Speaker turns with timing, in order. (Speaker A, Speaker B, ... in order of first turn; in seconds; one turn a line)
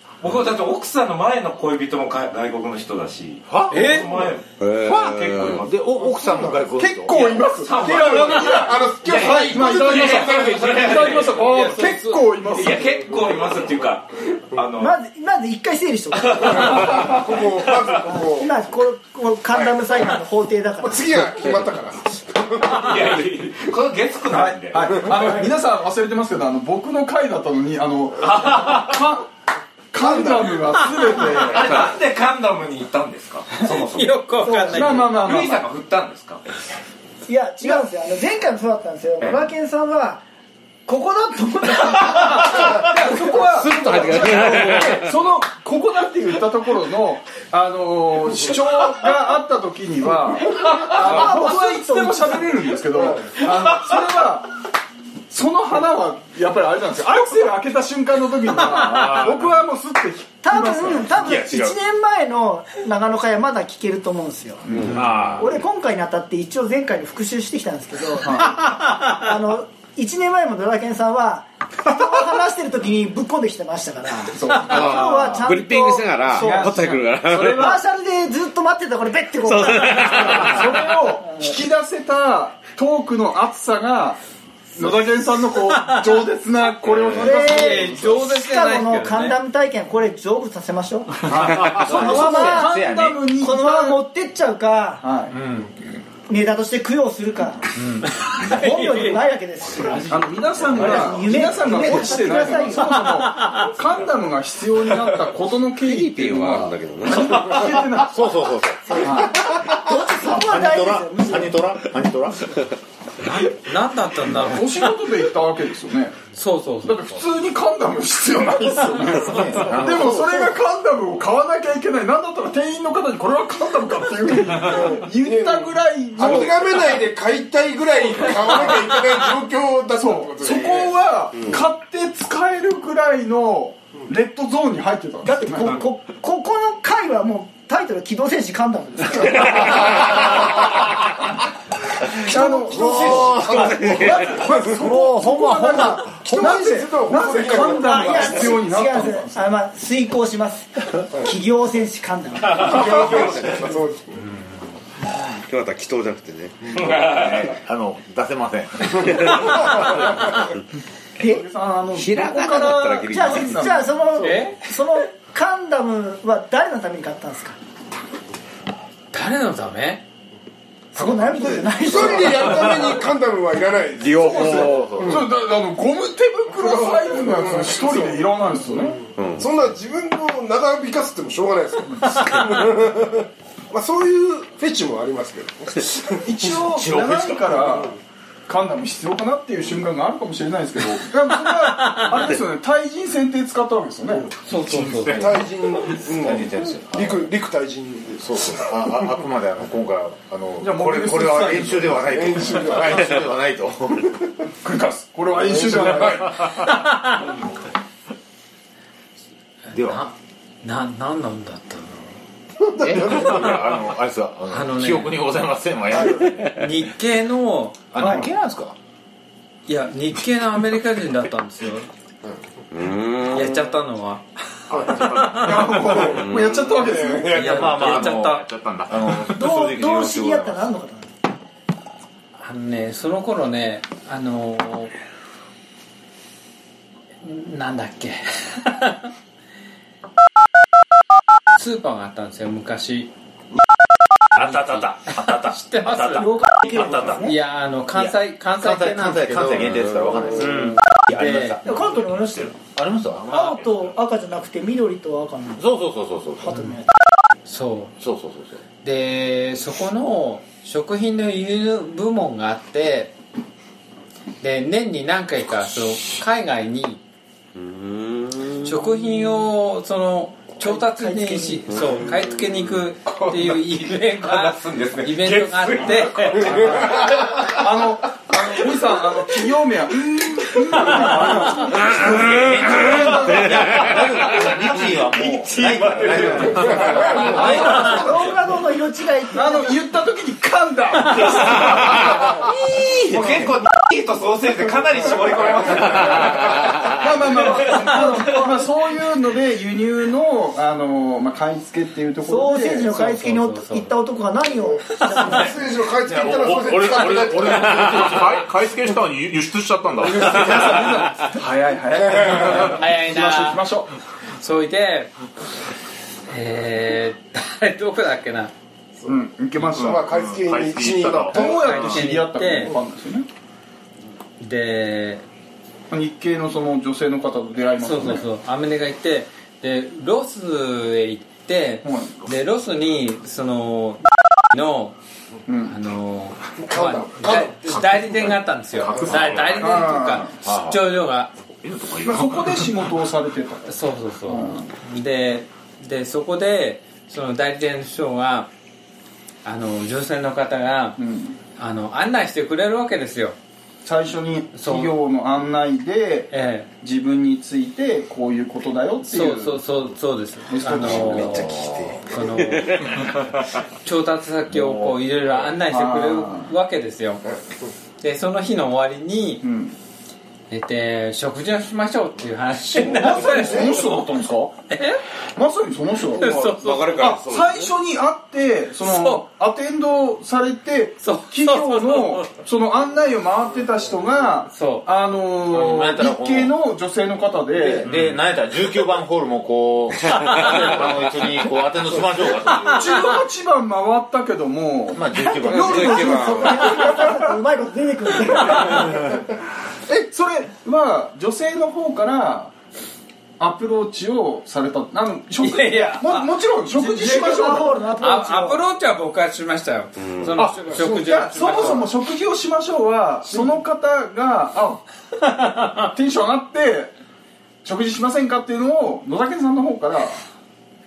Speaker A: 0.2-5.7
Speaker B: 3.5-4.0
Speaker C: 3.7-4.1
Speaker D: 4.6-5.7
Speaker B: 4.9-7.4
Speaker E: 5.9-11.0
Speaker F: 6.7-13.2
Speaker A: 7.1-15.0
Speaker C: 11.4-12.2
Speaker G: 14.8-17.2
Speaker E: 16.4-18.5
Speaker A: 16.5-17.0
Speaker G: 18.0-21.3
Speaker E: 20.8-22.9
Speaker A: 22.6-25.4
Speaker F: 24.3-29.3
Speaker A: 28.2-29.0
Speaker F: 29.9-31.8
Speaker E: 30.0-30.9
Speaker A: 31.2-34.1
Speaker C: 33.9-35.1
Speaker G: 34.4-35.0
Speaker F: 34.7-35.6
Speaker A: 35.0-36.4
Speaker G: 37.2-40.2
Speaker G: 40.9-43.4
Speaker F: 42.0-54.5
Speaker D: 43.5-45.1
Speaker G: 50.6-53.3
Speaker F: 55.3-61.4
Speaker G: 60.4-64.7
Speaker B: 61.2-61.8
Speaker F: 64.7-65.0
Speaker B: 64.9-65.6
Speaker H: 65.0-65.4
Speaker G: 65.4-81.5
Speaker F: 68.2-68.6
Speaker F: 74.3-75.1
Speaker D: 74.6-77.8
Speaker B: 75.0-75.4
Speaker F: 76.3-77.8
Speaker D: 79.4-80.8
Speaker F: 80.0-84.2
Speaker F: 84.8-88.1
Speaker G: 87.1-92.8
Speaker C: 87.2-89.4
Speaker F: 91.3-94.0
Speaker B: 91.4-93.2
Speaker G: 93.4-95.0
Speaker F: 95.0-95.4
Speaker C: 95.3-95.7
Speaker G: 96.3-97.7
Speaker C: 97.8-99.2
Speaker G: 98.4-100.2
Speaker C: 99.8-101.0
Speaker F: 100.1-108.3
Speaker G: 100.7-103.2
Speaker C: 103.0-103.7
Speaker D: 105.8-107.8
Speaker B: 108.1-112.5
Speaker G: 108.9-111.6
Speaker F: 109.0-109.5
Speaker C: 113.2-115.0
Speaker F: 114.2-116.2
Speaker C: 116.3-117.1
Speaker F: 116.8-127.0
Speaker B: 119.0-120.5
Speaker E: 124.6-130.9
Speaker F: 128.2-128.9
Speaker F: 129.9-135.8
Speaker G: 135.2-140.2
Speaker F: 142.2-149.3
Speaker E: 142.3-144.5
Speaker B: 142.6-146.6
Speaker E: 145.6-148.6
Speaker G: 147.7-153.6
Speaker E: 152.5-154.2
Speaker D: 155.5-156.8
Speaker B: 156.8-159.8
Speaker G: 161.2-161.4
Speaker F: 161.2-164.5
Speaker D: 161.9-163.8
Speaker G: 163.0-167.6
Speaker C: 164.2-164.6
Speaker C: 169.1-170.0
Speaker G: 170.9-173.0
Speaker E: 171.7-175.2
Speaker B: 174.0-175.2
Speaker D: 174.0-175.0
Speaker F: 174.2-179.0
Speaker E: 176.5-186.2
Speaker D: 179.2-179.5
Speaker F: 186.2-194.3
Speaker B: 186.7-187.7
Speaker C: 194.5-195.4
Speaker H: 194.7-195.3
Speaker B: 194.7-197.3
Speaker E: 195.2-199.1
Speaker B: 198.2-204.1
Speaker F: 200.6-202.2
Speaker E: 202.1-203.2
Speaker F: 204.6-206.9
Speaker E: 205.4-206.2
Speaker B: 209.7-210.1
Speaker C: 209.7-212.1
Speaker E: 212.7-213.5
Speaker B: 212.8-216.6
Speaker C: 214.5-215.2
Speaker C: 216.5-218.2
Speaker B: 217.9-218.8
Speaker C: 219.7-221.9
Speaker D: 222.7-223.8
Speaker C: 223.3-224.2
Speaker H: 224.7-225.6
Speaker E: 224.7-225.0
Speaker C: 224.9-225.8
Speaker F: 225.3-227.7
Speaker E: 225.6-227.4
Speaker D: 226.1-226.9
Speaker B: 227.3-230.7
Speaker C: 227.3-228.4
Speaker H: 227.6-229.3
Speaker G: 229.2-231.1
Speaker C: 232.4-234.9
Speaker C: 237.2-239.1
Speaker C: 241.5-243.1
Speaker B: 244.4-247.2
Speaker H: 244.4-245.2
Speaker C: 245.3-246.4
Speaker H: 245.9-246.2
Speaker G: 246.1-247.4
Speaker C: 247.2-249.8
Speaker B: 247.9-252.1
Speaker C: 250.4-251.6
Speaker G: 251.6-252.6
Speaker B: 252.6-253.6
Speaker G: 253.2-255.7
Speaker B: 255.6-256.6
Speaker G: 256.4-256.9
Speaker C: 257.5-257.9
Speaker B: 258.0-258.6
Speaker C: 258.8-263.1
Speaker C: 264.4-267.0
Speaker D: 267.6-268.7
Speaker C: 268.6-276.9
Speaker G: 270.6-271.9
Speaker A: 273.2-273.6
Speaker A: 274.2-277.0
Speaker F: 276.6-283.9
Speaker B: 282.2-288.1
Speaker F: 284.8-285.3
Speaker F: 285.9-288.1
Speaker E: 286.5-287.0
Speaker G: 286.9-289.8
Speaker F: 289.3-292.5
Speaker A: 292.7-297.9
Speaker F: 296.8-302.9
Speaker G: 297.9-298.5
Speaker G: 302.2-305.6
Speaker C: 302.9-303.9
Speaker E: 305.0-308.2
Speaker B: 306.1-308.4
Speaker H: 306.1-310.3
Speaker F: 310.2-313.9
Speaker C: 312.4-313.6
Speaker C: 314.4-315.1
Speaker C: 316.3-318.5
Speaker F: 319.1-320.1
Speaker H: 319.7-321.4
Speaker E: 319.8-321.8
Speaker F: 321.3-323.3
Speaker C: 321.3-322.7
Speaker C: 324.4-325.2
Speaker F: 325.9-328.2
Speaker C: 327.8-335.0
Speaker F: 331.8-332.2
Speaker F: 335.5-335.8
Speaker C: 335.6-341.3
Speaker E: 336.6-337.5
Speaker H: 337.7-339.6
Speaker F: 339.6-340.4
Speaker B: 340.4-340.8
Speaker H: 341.6-342.7
Speaker F: 342.0-344.7
Speaker C: 343.7-348.5
Speaker C: 349.4-351.0
Speaker F: 351.0-351.4
Speaker C: 351.6-353.4
Speaker F: 353.8-359.6
Speaker C: 354.6-354.9
Speaker C: 356.3-356.7
Speaker C: 359.0-362.8
Speaker F: 360.4-361.6
Speaker B: 361.4-361.9
Speaker D: 362.5-362.9
Speaker C: 363.8-367.2
Speaker B: 364.5-365.0
Speaker F: 365.6-366.5
Speaker C: 368.0-369.4
Speaker F: 369.4-369.8
Speaker C: 370.5-373.9
Speaker F: 372.7-374.6
Speaker E: 373.3-373.7
Speaker C: 374.7-375.0
Speaker F: 375.4-387.9
Speaker C: 376.1-377.2
Speaker D: 376.5-377.7
Speaker C: 378.8-379.2
Speaker C: 381.0-382.3
Speaker C: 384.5-384.9
Speaker B: 385.5-386.6
Speaker B: 387.6-393.0
Speaker C: 387.9-388.1
Speaker F: 392.4-397.3
Speaker B: 394.9-396.1
Speaker D: 395.4-396.7
Speaker G: 395.5-399.1
Speaker F: 399.9-402.6
Speaker F: 403.4-407.8
Speaker C: 405.4-406.3
Speaker G: 406.7-408.6
Speaker C: 408.0-411.9
Speaker D: 410.0-410.3
Speaker F: 410.6-414.8
Speaker E: 413.3-413.5
Speaker C: 415.4-415.9
Speaker F: 415.7-416.9
Speaker F: 417.6-420.2